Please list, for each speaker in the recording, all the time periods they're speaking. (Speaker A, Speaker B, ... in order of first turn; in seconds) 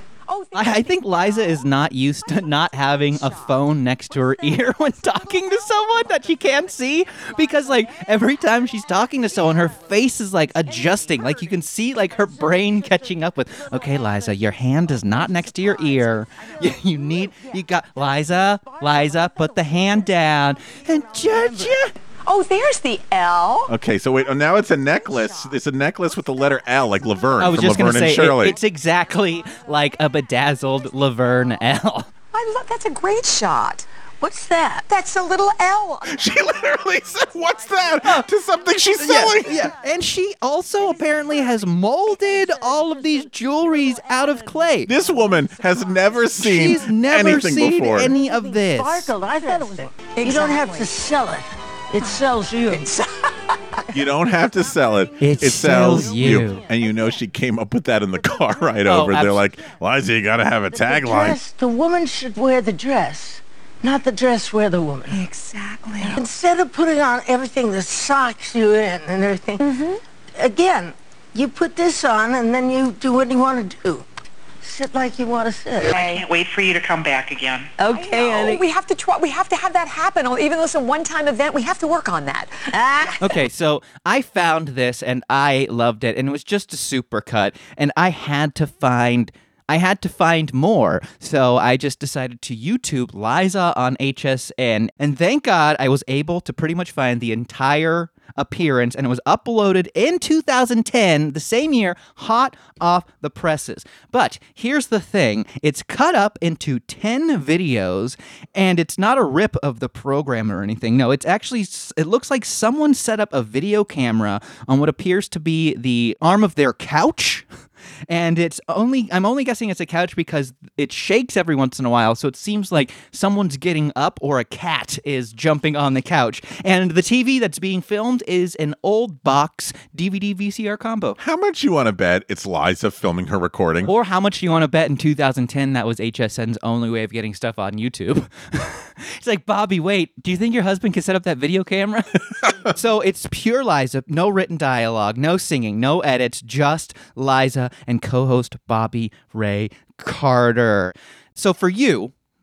Speaker A: 0.3-1.2, 22.2-23.7, 32.3-33.9, 34.9-36.6, 49.5-50.9, 69.6-70.0, 75.9-76.2, 77.9-82.5
Speaker B: 0.5-21.9, 27.4-32.1, 39.0-44.9, 46.4-49.1, 55.2-56.6, 58.8-59.4, 65.1-66.2, 83.2-117.5, 118.1-131.2, 133.9-152.1
Speaker C: 23.7-28.6, 36.1-39.7, 44.9-48.2, 53.9-61.4, 131.2-133.9, 142.4-142.7
Speaker D: 34.2-34.9, 48.3-53.8, 60.7-65.2, 66.0-69.7, 70.4-74.1, 74.6-76.1, 77.8-78.6, 82.7-83.3
Speaker E: 75.8-78.5